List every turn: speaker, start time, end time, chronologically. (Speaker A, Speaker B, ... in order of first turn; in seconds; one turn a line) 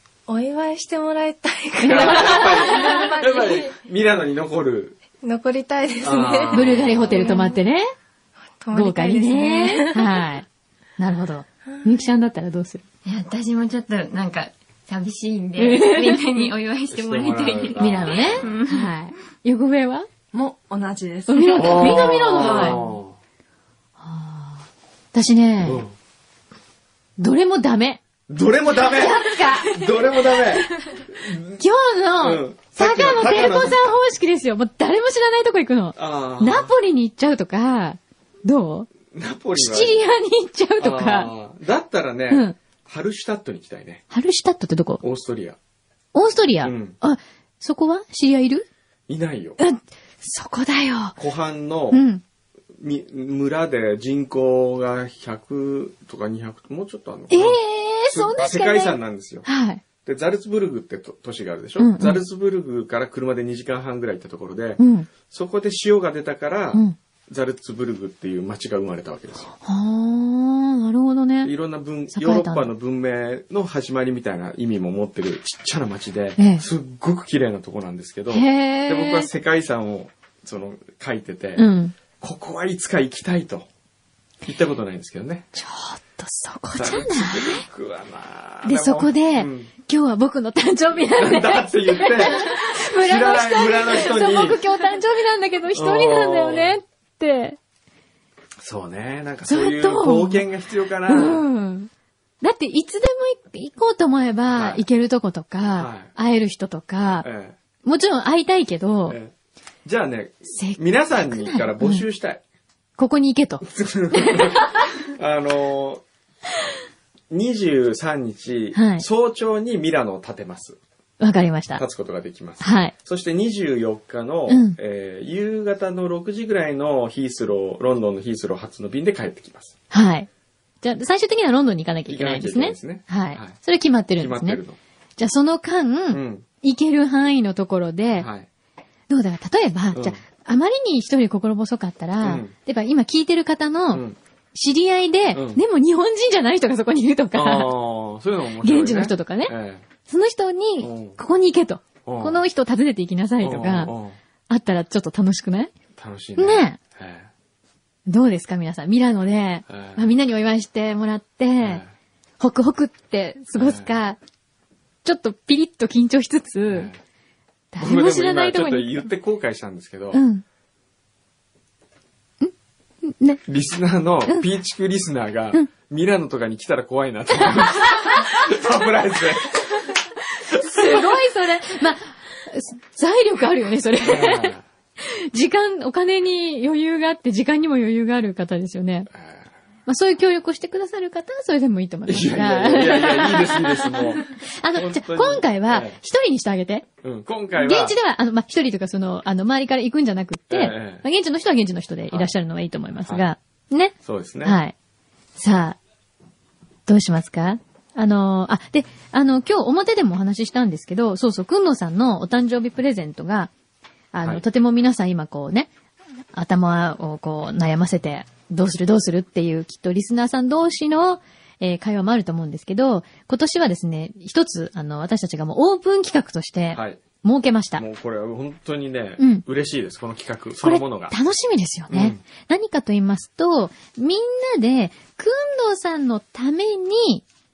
Speaker A: 0.3-3.7
Speaker B: 1.8-5.0
Speaker C: 1.8-2.6
Speaker A: 5.2-7.6
Speaker B: 6.0-7.4
Speaker C: 6.5-7.8
Speaker A: 8.6-10.2
Speaker C: 8.7-10.4
Speaker C: 11.0-12.8
Speaker D: 13.0-18.9
Speaker C: 15.6-16.5
Speaker B: 16.9-18.5
Speaker C: 17.7-20.1
Speaker E: 20.3-22.8
Speaker C: 21.3-22.8
Speaker B: 21.5-23.1
Speaker C: 24.0-25.9
Speaker B: 25.6-25.9
Speaker C: 27.2-28.0
Speaker B: 28.3-31.6
Speaker C: 28.7-29.9
Speaker C: 31.5-38.9
Speaker B: 32.2-34.0
Speaker B: 35.9-36.7
Speaker B: 39.1-40.0
Speaker C: 39.5-41.3
Speaker B: 40.8-44.0
Speaker C: 42.3-42.6
Speaker C: 44.1-45.0
Speaker B: 45.0-45.6
Speaker C: 46.1-48.6
Speaker B: 46.6-47.0
Speaker B: 49.1-49.6
Speaker C: 49.6-51.2
Speaker B: 51.2-52.0
Speaker C: 51.9-52.2
Speaker B: 52.8-59.5
Speaker C: 57.3-59.8
Speaker B: 60.0-69.5
Speaker C: 61.8-62.2
Speaker C: 64.8-65.1
Speaker C: 69.6-71.5
Speaker B: 71.4-83.7
Speaker C: 72.1-72.7
Speaker C: 76.4-76.6
Speaker C: 78.3-79.3
Speaker C: 81.5-81.9
Speaker B: 84.4-85.5
Speaker C: 85.5-87.7
Speaker B: 86.8-89.7
Speaker C: 88.6-97.6
Speaker B: 91.2-94.6
Speaker B: 95.7-96.8
Speaker B: 98.6-101.4
Speaker C: 99.5-100.4
Speaker C: 101.0-101.9
Speaker C: 102.4-107.3
Speaker B: 104.5-104.8
Speaker B: 105.8-106.1
Speaker B: 107.2-107.5
Speaker C: 107.8-109.2
Speaker B: 109.1-109.3
Speaker B: 109.8-112.4
Speaker C: 110.5-112.0
Speaker C: 113.0-114.7
Speaker B: 113.6-116.0
Speaker B: 117.3-120.8
Speaker C: 118.7-119.0
Speaker C: 121.2-121.8
Speaker B: 121.8-129.8
Speaker C: 122.6-122.9
Speaker C: 124.5-124.8
Speaker C: 129.9-130.3
Speaker C: 130.8-134.6
Speaker B: 132.1-133.6
Speaker B: 134.2-134.8
Speaker C: 135.2-138.3
Speaker B: 136.1-136.4
Speaker B: 138.2-138.5
Speaker C: 139.1-147.7
Speaker B: 139.9-140.2
Speaker B: 142.2-142.5
Speaker B: 143.9-144.2
Speaker B: 145.3-145.6
Speaker B: 147.3-149.8
Speaker C: 148.6-149.5
Speaker C: 150.1-153.9
Speaker B: 150.8-151.2
Speaker B: 152.0-152.4
Speaker B: 153.4-154.2
Speaker C: 154.5-155.7
Speaker B: 155.9-157.3
Speaker C: 156.4-156.8
Speaker C: 158.1-161.8
Speaker B: 159.7-160.1
Speaker B: 161.6-161.9
Speaker C: 162.4-164.2
Speaker B: 163.5-163.9
Speaker C: 165.0-166.9
Speaker B: 166.7-167.0
Speaker C: 167.7-169.1
Speaker B: 167.8-170.2
Speaker C: 170.1-170.4
Speaker C: 173.0-173.4
Speaker B: 173.4-179.9
Speaker B: 180.5-181.0
Speaker C: 180.5-189.1
Speaker B: 184.0-184.6
Speaker B: 189.1-189.5
Speaker C: 189.8-196.8
Speaker B: 192.1-196.0
Speaker B: 197.0-197.9
Speaker C: 197.6-204.7
Speaker B: 200.5-201.0
Speaker B: 204.0-204.6
Speaker C: 205.3-205.8
Speaker C: 206.9-213.5
Speaker C: 214.1-215.7
Speaker C: 216.3-227.8
Speaker B: 226.7-227.0
Speaker B: 227.8-231.2
Speaker C: 229.2-229.4
Speaker C: 230.6-237.2
Speaker B: 231.9-232.2